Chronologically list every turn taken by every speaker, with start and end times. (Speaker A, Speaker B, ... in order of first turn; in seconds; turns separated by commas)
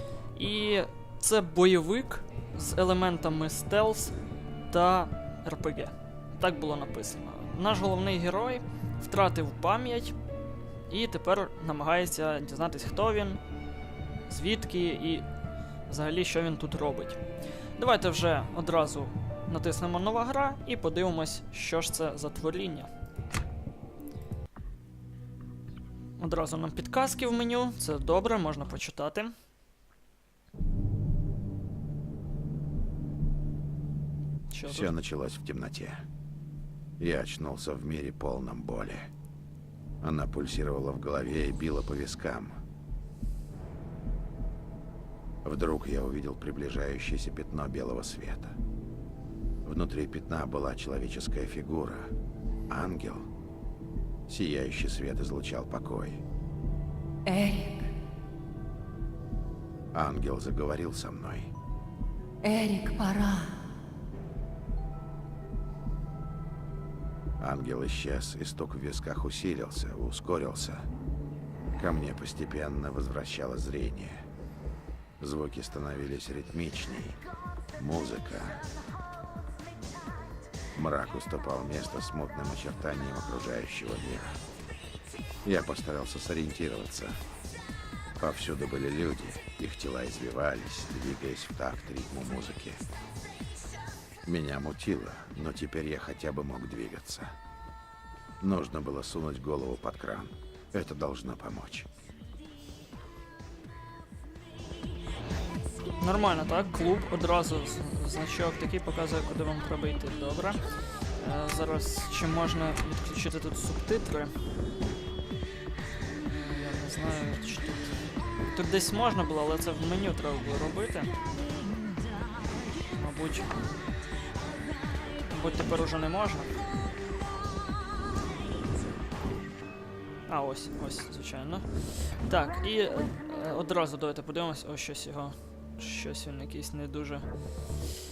Speaker A: 0.3-4.2, Speaker A: 4.7-10.2, Speaker A: 10.9-13.4, Speaker A: 14.3-15.3, Speaker A: 15.9-17.2, Speaker A: 17.8-22.9, Speaker A: 26.2-29.3, Speaker A: 34.5-34.9, Speaker B: 34.7-36.0, Speaker B: 37.0-39.1, Speaker B: 40.0-42.6, Speaker B: 45.4-48.6, Speaker B: 49.6-52.1, Speaker B: 52.7-53.3, Speaker B: 54.3-56.2, Speaker C: 57.3-57.9, Speaker B: 59.9-61.5, Speaker C: 62.4-63.7, Speaker B: 67.4-70.9, Speaker B: 71.8-74.3, Speaker B: 75.2-77.2, Speaker B: 77.8-78.6, Speaker B: 80.8-84.4, Speaker B: 85.5-87.2, Speaker B: 88.2-92.8, Speaker B: 94.3-97.3, Speaker B: 98.4-101.9, Speaker A: 106.0-114.3, Speaker A: 116.2-121.2, Speaker A: 122.9-123.5, Speaker A: 125.3-126.5, Speaker A: 130.3-137.8